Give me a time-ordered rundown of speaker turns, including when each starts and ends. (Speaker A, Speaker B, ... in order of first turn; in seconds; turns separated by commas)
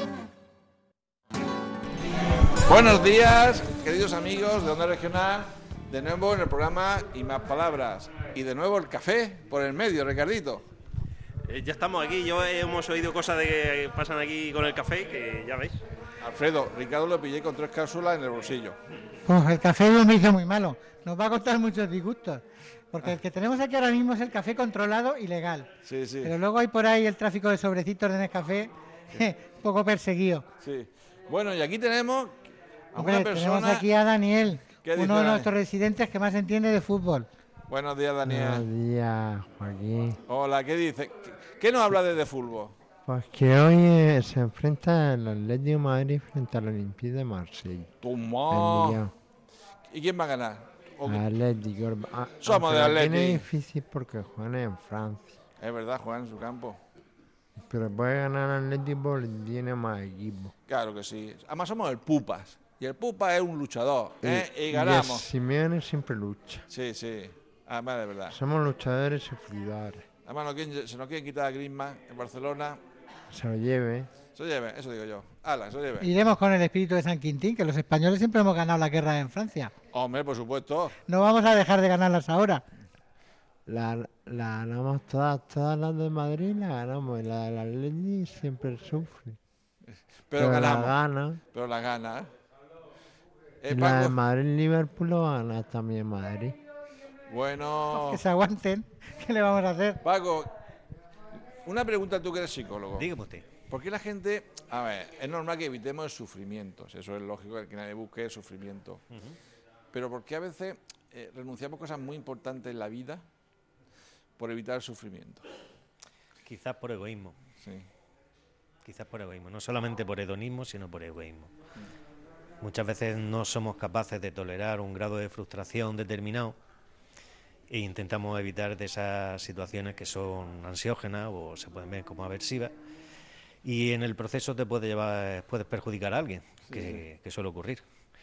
Speaker A: 2.7-10.6, Speaker B: 11.5-15.8, Speaker A: 16.2-18.8, Speaker C: 19.2-25.7, Speaker A: 25.8-26.3, Speaker C: 26.2-30.4, Speaker A: 30.6-32.4, Speaker A: 32.9-33.9, Speaker C: 33.0-37.3, Speaker A: 34.8-35.5, Speaker A: 37.7-38.6, Speaker D: 38.2-40.2, Speaker A: 40.3-42.7, Speaker D: 43.0-47.9, Speaker A: 48.0-49.0, Speaker D: 48.5-49.1, Speaker A: 49.9-51.2, Speaker D: 51.0-55.3, Speaker A: 52.4-53.5, Speaker A: 55.6-56.8, Speaker D: 57.7-60.5, Speaker A: 60.7-65.3, Speaker D: 64.2-66.7, Speaker A: 66.7-68.4, Speaker D: 68.2-70.0, Speaker A: 70.2-72.8, Speaker D: 73.3-74.1, Speaker A: 74.3-76.1, Speaker C: 76.0-79.7, Speaker A: 79.9-81.0, Speaker C: 81.1-82.6, Speaker D: 83.7-89.4, Speaker A: 90.3-91.0, Speaker D: 90.3-91.4, Speaker A: 91.5-92.3, Speaker A: 93.6-94.2, Speaker D: 93.7-96.6, Speaker A: 97.3-98.2, Speaker C: 97.9-100.0, Speaker A: 100.0-100.5, Speaker A: 101.6-103.1, Speaker E: 102.9-103.5, Speaker A: 103.7-109.0, Speaker E: 109.1-109.3, Speaker A: 109.9-113.2, Speaker A: 114.4-115.4, Speaker E: 116.4-117.3, Speaker A: 117.6-117.9, Speaker E: 118.8-121.5, Speaker E: 122.6-126.5, Speaker E: 127.7-132.7, Speaker E: 133.6-137.8, Speaker A: 136.7-137.0